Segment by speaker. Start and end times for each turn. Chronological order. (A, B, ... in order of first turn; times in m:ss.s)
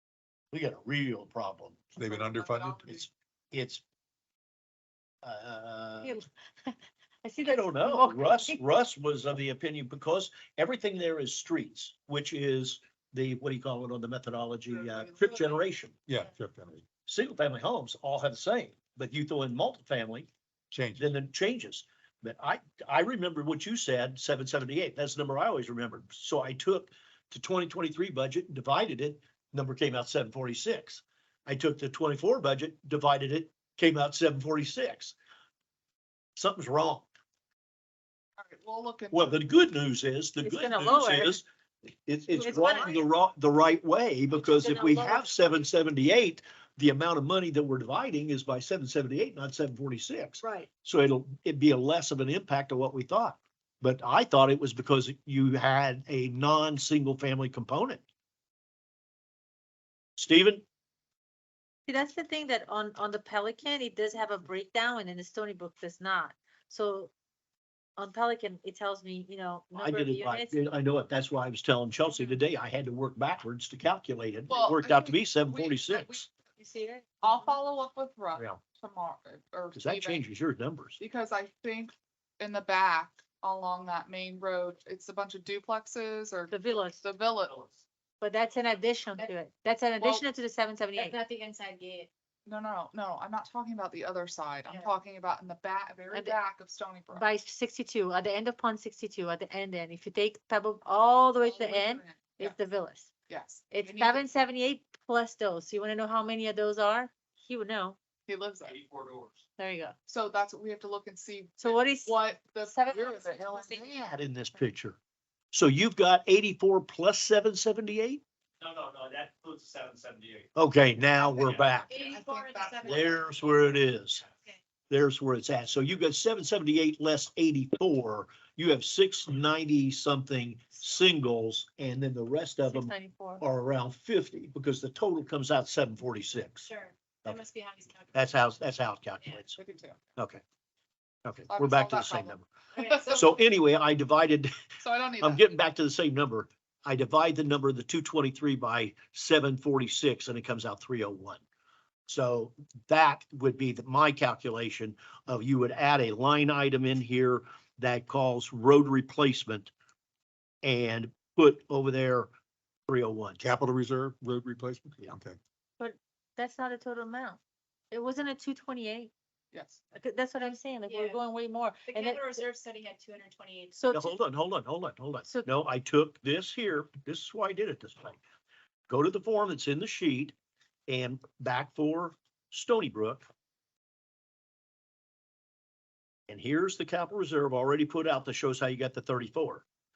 0:00.5-0:02.0 A
0:02.0-0:03.1 B
0:02.0-0:02.9 C
0:02.9-0:03.8 A
0:05.2-0:06.2 A
0:06.0-0:08.6 D
0:07.4-0:16.0 A
0:14.6-0:15.6 B
0:16.1-0:16.8 C
0:17.1-0:20.3 A
0:20.7-0:21.1 C
0:21.0-0:35.2 A
0:36.4-0:37.1 A
0:38.4-0:39.4 B
0:39.1-0:41.4 A
0:40.4-0:41.4 D
0:42.1-0:58.0 A
0:42.4-0:43.0 D
0:44.3-0:45.7 D
0:50.4-0:50.7 D
1:00.2-1:00.6 A
1:01.9-1:07.1 D
1:08.0-1:10.6 D
1:09.7-1:16.3 A
1:12.1-1:12.4 D
1:14.5-1:16.2 B
1:16.6-1:17.5 D
1:17.2-1:20.2 B
1:18.4-1:18.6 A
1:19.7-1:21.0 A
1:21.0-1:27.6 B
1:26.5-1:27.0 D
1:27.4-1:27.7 E
1:28.2-1:31.2 D
1:31.0-1:32.1 F
1:32.5-1:37.3 B
1:37.1-1:43.1 D
1:41.4-1:42.6 B
1:43.3-1:44.3 B
1:43.7-1:48.0 D
1:48.3-1:48.8 B
1:48.6-1:49.4 E
1:49.6-1:50.0 D
1:50.1-1:53.8 B
1:51.6-1:53.8 D
1:53.5-1:55.0 A
1:55.5-1:58.2 A
1:58.6-2:00.5 E
2:00.6-2:01.9 A
2:01.4-2:01.7 E
2:01.9-2:03.4 F
2:02.1-2:03.2 B
2:02.8-2:04.2 A
2:04.9-2:16.7 A
2:12.7-2:13.4 D
2:16.6-2:18.4 F
2:18.1-2:19.6 A
2:19.6-2:20.0 B
2:21.2-2:22.5 A
2:21.5-2:23.3 B
2:22.8-2:23.4 F
2:23.1-2:24.5 A
2:24.8-2:25.6 B
2:25.2-2:31.4 A
2:32.1-2:39.7 A
2:40.6-2:42.3 A
2:42.9-2:43.4 A
2:43.4-2:45.4 C
2:45.8-2:47.4 D
2:47.9-2:49.1 D
2:49.5-2:49.8 B
2:49.9-2:52.4 D
2:50.9-2:51.2 F
2:51.9-2:53.8 F
2:53.8-2:54.2 D
2:53.9-2:58.2 A
2:58.9-3:00.4 A
3:00.9-3:03.3 A
3:06.3-3:09.6 A